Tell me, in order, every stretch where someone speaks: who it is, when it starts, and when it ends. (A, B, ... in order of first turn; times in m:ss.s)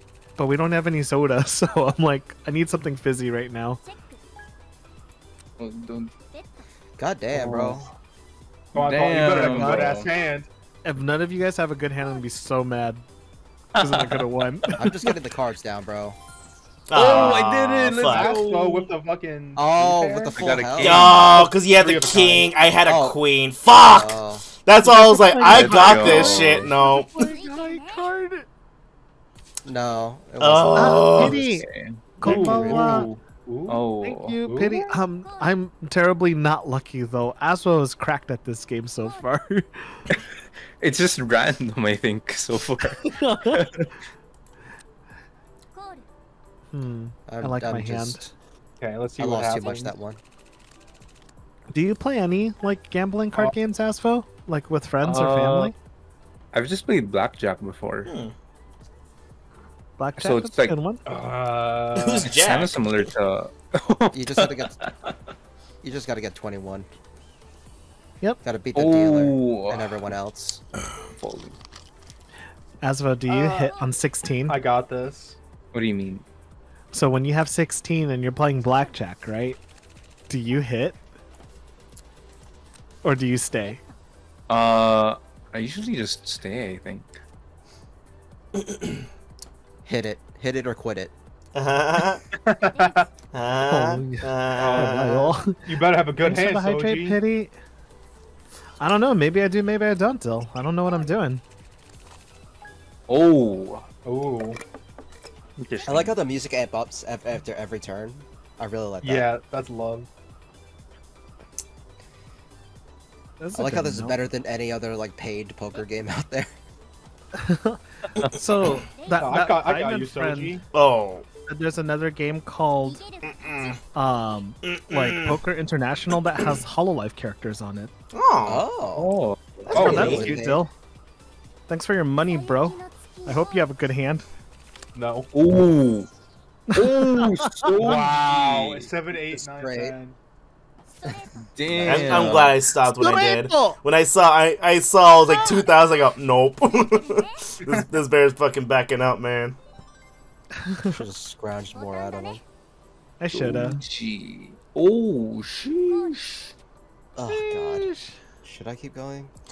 0:00.4-0:03.8 A
0:05.6-0:06.1 B
0:07.0-0:07.9 C
0:07.3-0:07.9 B
0:08.7-0:10.1 B
0:08.7-0:10.5 D
0:09.4-0:10.0 A
0:10.8-0:13.0 A
0:13.8-0:15.0 A
0:13.8-0:14.9 B
0:14.8-0:16.2 C
0:16.9-0:18.4 E
0:16.9-0:18.9 B
0:18.0-0:22.6 D
0:19.6-0:21.2 C
0:20.4-0:21.5 B
0:20.8-0:27.1 E
0:22.9-0:23.2 C
0:23.7-0:24.4 C
0:24.8-0:28.5 A
0:25.5-0:26.7 B
0:29.7-0:31.4 C
0:30.4-0:31.4 E
0:30.8-0:31.7 A
0:31.2-0:33.1 B
0:32.2-0:33.1 A
0:32.2-0:33.1 C
0:32.2-0:33.8 D
0:33.7-0:34.4 B
0:34.0-0:40.0 A
0:34.4-0:35.0 D
0:40.8-0:43.9 B
0:43.2-0:43.6 A
0:46.7-0:48.3 A
0:47.3-0:48.3 C
0:48.8-0:49.9 D
0:49.2-0:50.2 C
0:51.7-0:55.8 A
0:55.0-0:55.7 B
0:56.5-0:58.1 B
0:58.1-0:58.3 E
1:00.0-1:01.0 A
1:00.2-1:00.8 B
1:01.1-1:02.4 D
1:02.0-1:03.1 E
1:02.2-1:05.2 B
1:04.1-1:04.7 C
1:05.8-1:06.9 C
1:08.4-1:10.6 C
1:08.8-1:10.1 B
1:11.1-1:11.6 B
1:12.8-1:14.6 A
1:13.3-1:13.8 D
1:14.5-1:15.4 D
1:15.7-1:16.2 B
1:16.9-1:19.6 A
1:20.3-1:21.0 A
1:23.0-1:23.8 A
1:24.5-1:27.1 B
1:28.6-1:29.0 E
1:29.8-1:31.1 C
1:31.5-1:32.2 E
1:32.3-1:33.1 D
1:33.3-1:35.4 E
1:33.7-1:37.5 A
1:34.6-1:37.2 D
1:38.8-1:41.4 A
1:43.1-1:43.8 B
1:44.0-1:44.6 D
1:45.6-1:46.2 B
1:45.9-1:49.3 C
1:49.0-1:50.1 D
1:53.4-1:54.2 A
1:53.6-1:56.5 C
1:57.4-2:00.6 A
1:59.2-2:00.6 D
2:00.7-2:01.3 E
2:01.5-2:03.0 A
2:03.2-2:03.8 E
2:03.9-2:07.9 A
2:04.6-2:05.4 E
2:08.1-2:08.6 E
2:08.4-2:09.1 C
2:09.0-2:10.3 B
2:09.7-2:10.4 E
2:09.7-2:10.2 D
2:09.7-2:10.6 C
2:09.8-2:10.7 A
2:11.7-2:14.2 A
2:14.9-2:15.3 D
2:15.3-2:16.1 B
2:16.7-2:17.8 A
2:16.7-2:18.9 B
2:17.8-2:20.2 D
2:19.3-2:19.9 C
2:21.4-2:22.6 B
2:21.7-2:22.6 C
2:21.8-2:29.6 E
2:22.8-2:23.8 A
2:30.6-2:31.0 A
2:30.9-2:32.4 C
2:33.2-2:33.8 A
2:33.3-2:36.5 B
2:37.2-2:37.9 C
2:37.3-2:38.2 A
2:38.4-2:39.3 C